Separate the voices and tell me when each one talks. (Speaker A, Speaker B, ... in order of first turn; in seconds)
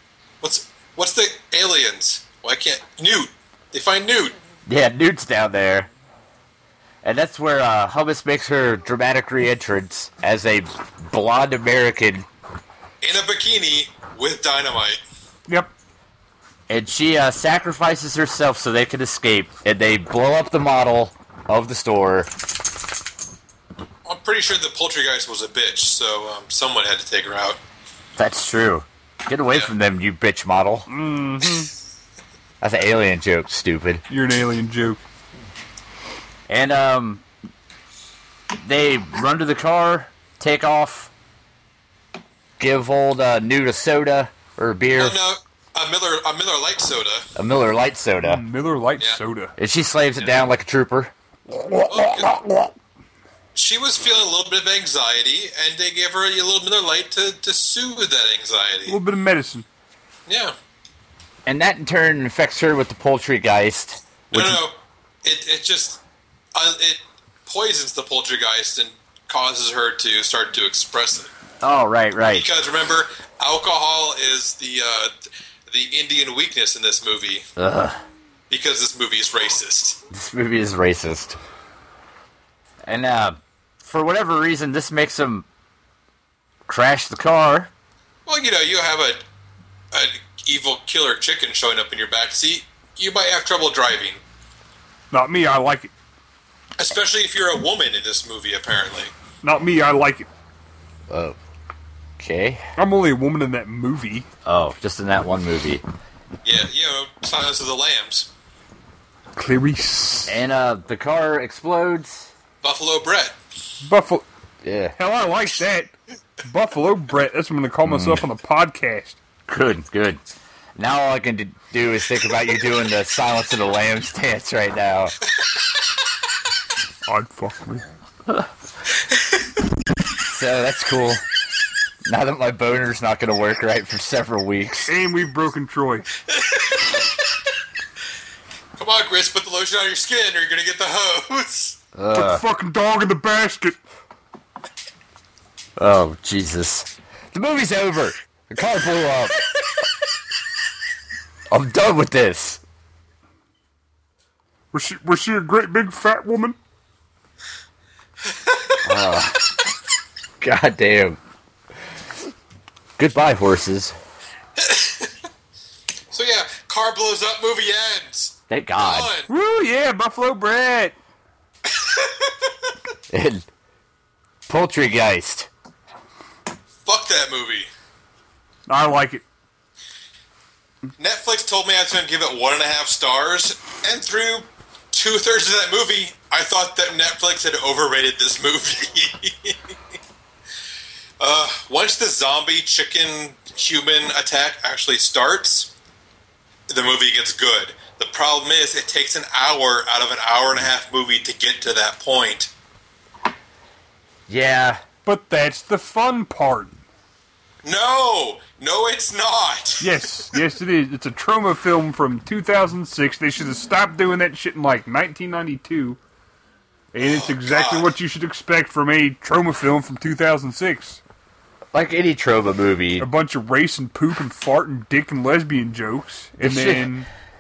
Speaker A: 0.4-4.4, 13.0-15.0, 24.1-27.6, 45.0-47.3, 51.9-52.3, 53.5-59.0, 60.3-60.5, 64.3-66.0, 66.5-71.3, 72.3-75.2, 75.7-77.5, 78.5-80.0, 88.3-89.2, 89.9-94.2, 96.8-99.1, 106.4-108.3, 112.6-113.3, 136.3-137.0, 138.8-141.8, 158.2-159.0, 164.6-165.1, 166.1-169.3, 171.7-172.7, 176.8-177.7, 181.0-189.8, 191.2-195.7, 196.7-202.5, 207.6-209.9, 217.0-217.9
Speaker B: 4.7-5.9, 7.0-12.3, 16.7-22.3, 28.2-30.9, 32.6-34.0, 36.5-37.2, 38.6-41.1, 42.6-45.2, 47.4-48.4, 49.6-51.1, 61.5-64.6, 71.6-72.5, 77.6-78.0, 80.1-81.4, 82.9-85.5, 86.7-87.7, 101.1-101.4, 102.2-102.6, 104.5-105.8, 110.3-112.3, 114.6-115.0, 117.8-118.2, 119.5-120.2, 120.8-125.2, 130.3-131.2, 132.1-134.9, 141.9-142.4, 145.8-149.4, 151.5-152.6, 158.8-159.5, 160.4-161.2, 163.0-163.9, 168.5-169.1, 173.1-173.5, 174.5-175.5, 204.3-204.8, 221.7-223.1, 226.4-226.9
Speaker C: 30.9-31.7, 34.1-35.0, 48.2-49.5, 51.5-52.4, 58.9-59.7, 95.1-95.9, 99.4-100.3, 102.8-104.3, 109.4-110.4, 113.8-114.3, 115.0-115.9, 116.4-119.2, 127.1-127.8, 134.9-136.1, 142.1-143.8, 154.7-156.6, 169.3-170.9, 178.7-179.2, 205.1-206.8, 209.8-216.0, 216.9-221.0, 223.0-227.1